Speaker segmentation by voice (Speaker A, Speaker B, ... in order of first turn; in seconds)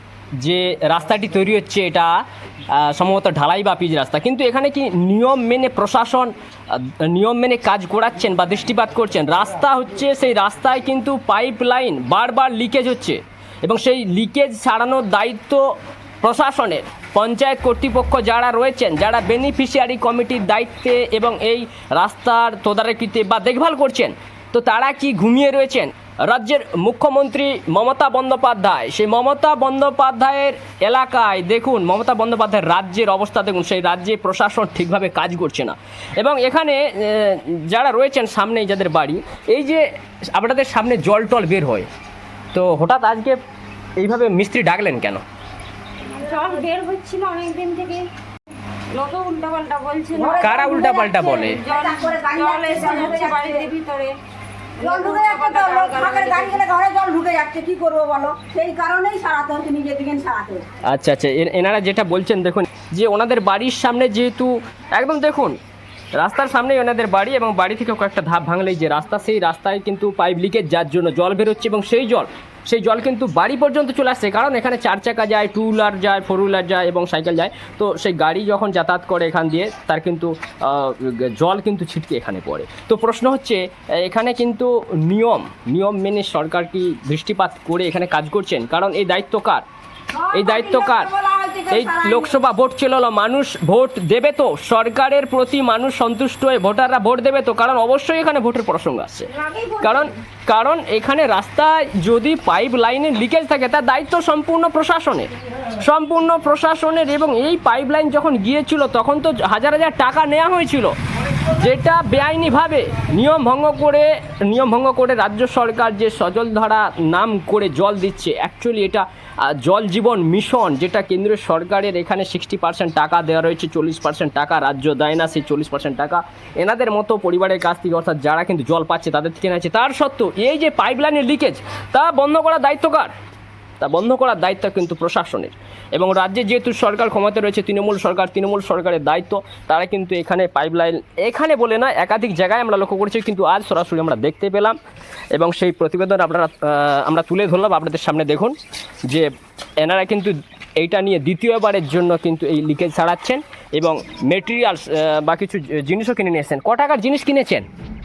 Speaker A: 0.4-41.9, 42.5-43.4, 44.0-45.2, 50.4-51.6, 60.8-65.6, 66.1-89.6, 90.3-91.1, 91.7-133.1, 133.8-144.8, 145.3-157.7
Speaker B: 46.1-48.1, 48.9-54.2, 54.8-56.6, 99.3-100.1
Speaker C: 50.1-53.7, 54.8-60.6, 90.1-92.3